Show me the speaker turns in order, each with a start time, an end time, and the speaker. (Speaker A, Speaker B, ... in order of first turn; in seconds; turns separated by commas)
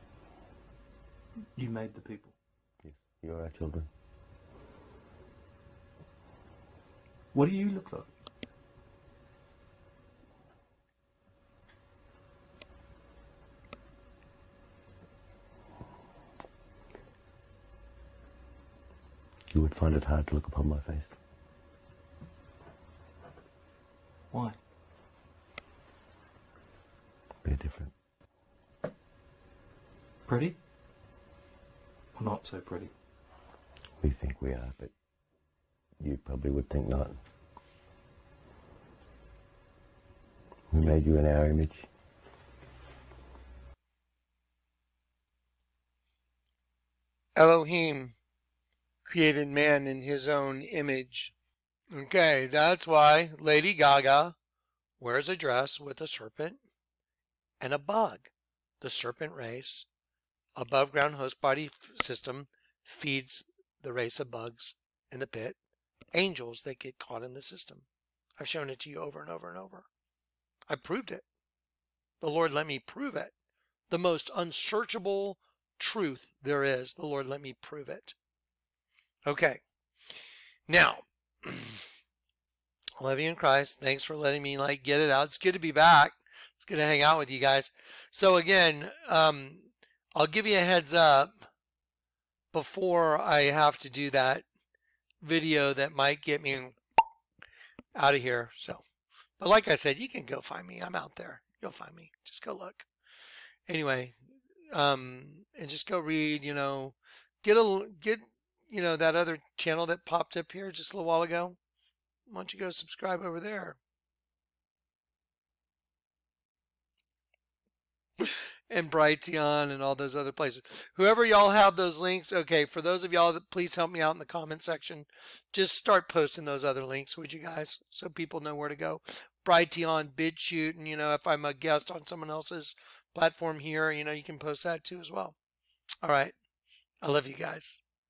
Speaker A: 1.6-2.4, Speaker B: 2.8-3.9, Speaker A: 7.3-8.1, Speaker B: 19.5-21.1, Speaker A: 24.3-24.6, Speaker B: 27.4-27.9, Speaker A: 30.2-30.6, Speaker A: 32.1-32.9, Speaker B: 34.0-34.9, Speaker B: 36.0-37.2, Speaker B: 40.7-41.9, Speaker C: 47.4-48.1, Speaker C: 49.0-51.3, Speaker C: 51.9-54.3, Speaker C: 55.0-56.6, Speaker C: 57.6-58.3, Speaker C: 58.8-59.9, Speaker C: 60.5-65.6, Speaker C: 66.1-67.8, Speaker C: 68.4-69.9, Speaker C: 70.7-71.2, Speaker C: 72.2-73.3, Speaker C: 73.9-78.2, Speaker C: 79.2-79.6, Speaker C: 80.7-81.8, Speaker C: 83.0-91.3, Speaker C: 92.5-94.4, Speaker C: 95.2-96.8, Speaker C: 97.9-98.8, Speaker C: 99.4-102.9, Speaker C: 103.7-104.2, Speaker C: 104.7-111.6, Speaker C: 112.3-113.8, Speaker C: 118.2-135.3, Speaker C: 136.0-136.3, Speaker C: 137.0-137.8